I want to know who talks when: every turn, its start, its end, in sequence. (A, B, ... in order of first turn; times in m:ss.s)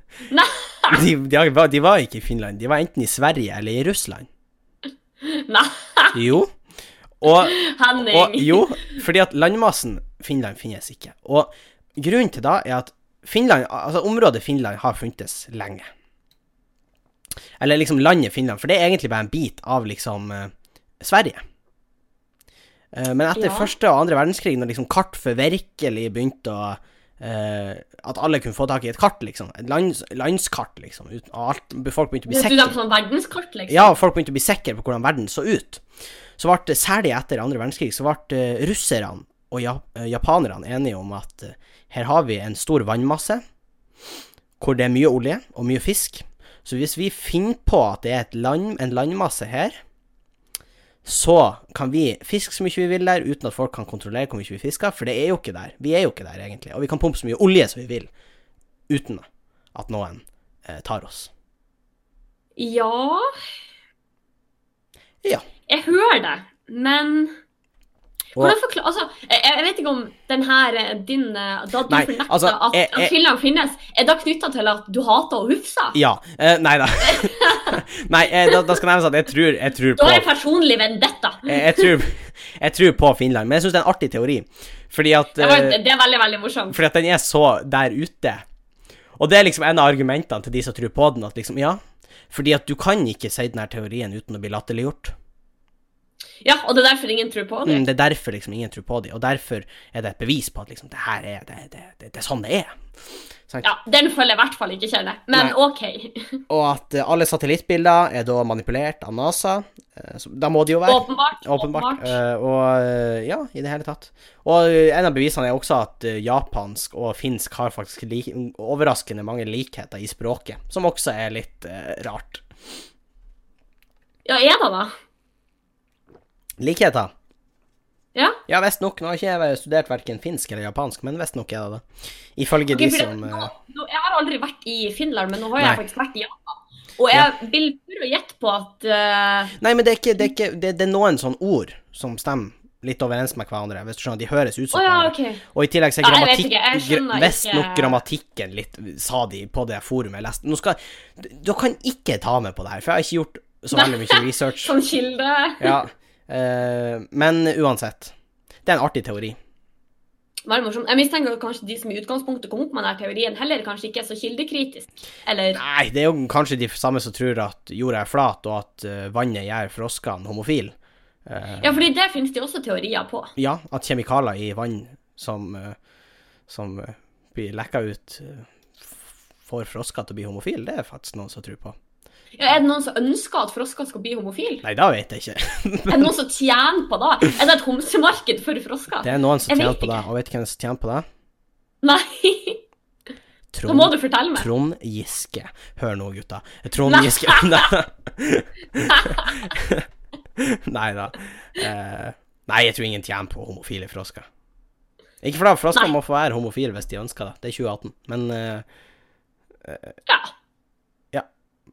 0:00.3-0:01.0 A
0:00.9-0:04.3 B
0:05.2-0:06.2 A
0:06.1-0:06.5 B
0:07.2-0:15.9 B
0:07.2-0:09.0 A
0:17.6-0:21.4 B
0:22.9-0:32.8 B
0:23.4-0:23.7 A
0:32.3-0:34.0 A
0:33.7-0:35.8 B
0:36.4-0:43.4 B
0:44.6-0:49.8 B
0:51.0-0:58.1 B
0:58.9-1:01.3 B
1:02.6-1:03.3 A
1:05.7-1:07.3 A
1:08.4-1:16.0 A
1:11.9-1:13.1 B
1:15.9-1:20.3 B
1:17.0-1:17.8 A
1:18.5-1:18.8 A
1:20.0-1:21.9 A
1:21.4-1:25.8 B
1:25.4-1:26.8 A
1:26.7-1:28.4 B
1:29.2-1:31.8 B
1:32.3-1:35.1 B
1:36.4-1:37.8 A
1:37.6-1:42.8 B
1:43.6-1:46.4 A
1:46.5-2:02.4 B
1:50.8-1:52.2 A
2:04.2-2:04.9 A
2:06.6-2:07.1 B
2:08.5-2:11.8 B
2:12.4-2:13.5 B
2:12.7-2:19.6 A
2:19.6-2:34.7 B
2:24.7-2:25.4 A
2:26.0-2:28.0 A
2:33.7-2:35.8 A
2:35.6-2:38.1 B
2:38.6-2:39.4 B
2:40.4-2:45.6 A
2:45.5-2:50.7 B
2:51.2-2:51.8 B
2:51.6-2:53.3 A
2:53.4-2:55.8 B
2:56.5-3:01.8 B
3:02.4-3:04.6 A
3:04.6-3:06.1 B
3:05.9-3:10.0 A
3:09.0-3:11.0 B
3:11.8-3:12.6 A
3:13.5-3:24.2 B
3:13.6-3:14.5 A
3:16.8-3:17.7 A
3:18.9-3:19.5 A
3:25.2-3:28.6 B
3:29.6-3:30.0 B
3:30.1-3:30.3 A